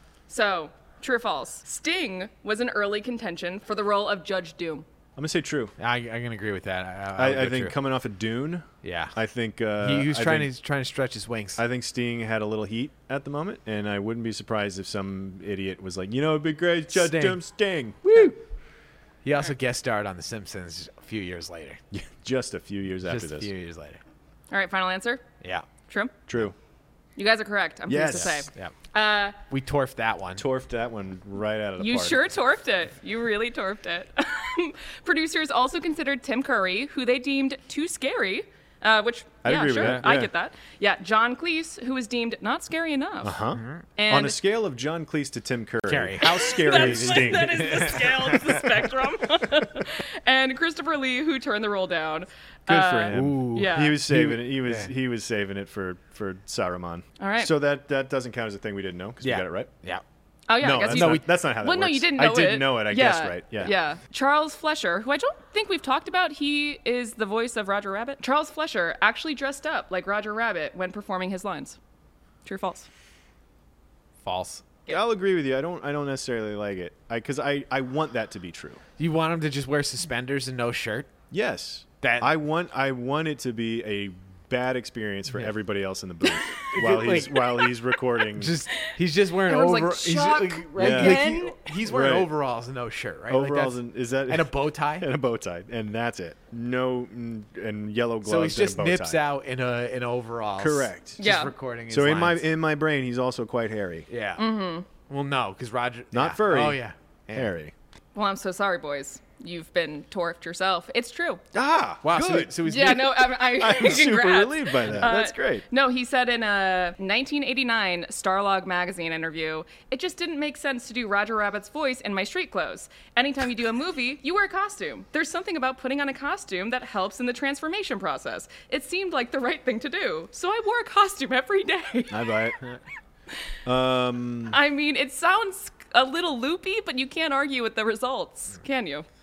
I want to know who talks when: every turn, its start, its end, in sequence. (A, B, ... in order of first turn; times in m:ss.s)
0:00.3-0:04.8 A
0:05.2-0:05.8 B
0:05.8-0:07.8 C
0:07.2-0:10.5 B
0:08.8-0:09.1 C
0:09.8-0:11.6 C
0:11.6-0:18.3 B
0:16.9-0:17.5 C
0:18.0-0:18.4 C
0:19.2-0:21.8 C
0:21.9-0:23.5 B
0:23.1-0:24.0 C
0:24.5-0:25.2 A
0:25.9-0:26.1 A
0:26.3-0:26.6 B
0:27.2-0:29.4 A
0:27.9-0:28.5 B
0:29.5-0:30.4 C
0:30.4-0:32.2 B
0:31.8-0:43.4 A
0:39.4-0:40.3 B
0:39.8-0:40.1 C
0:43.2-0:48.6 B
0:43.6-0:43.8 C
0:44.0-0:44.4 A
0:45.9-0:48.7 C
0:46.2-0:54.0 A
0:52.7-0:59.7 B
0:53.1-0:54.9 C
0:57.2-0:57.5 A
0:59.2-1:00.0 C
1:00.5-1:11.8 A
1:00.6-1:03.8 B
1:00.7-1:01.3 C
1:12.4-1:12.9 A
1:14.2-1:14.6 C
1:14.9-1:18.8 B
1:19.0-1:21.1 C
1:21.3-1:28.6 B
1:22.0-1:22.3 C
1:26.7-1:27.5 C
1:28.4-1:35.1 C
1:29.5-1:31.6 A
1:30.8-1:32.3 B
1:33.3-1:39.2 B
1:38.2-1:42.4 C
1:40.6-1:41.2 B
1:41.2-1:41.5 A
1:41.9-1:44.1 B
1:44.1-1:47.5 C
1:44.4-1:44.9 A
1:46.1-1:47.7 B
1:48.1-1:51.4 A
1:51.5-1:55.6 B
1:52.0-1:53.3 C
1:52.6-2:12.4 A
2:12.1-2:12.6 B
2:13.6-2:14.6 B
2:14.5-2:19.1 A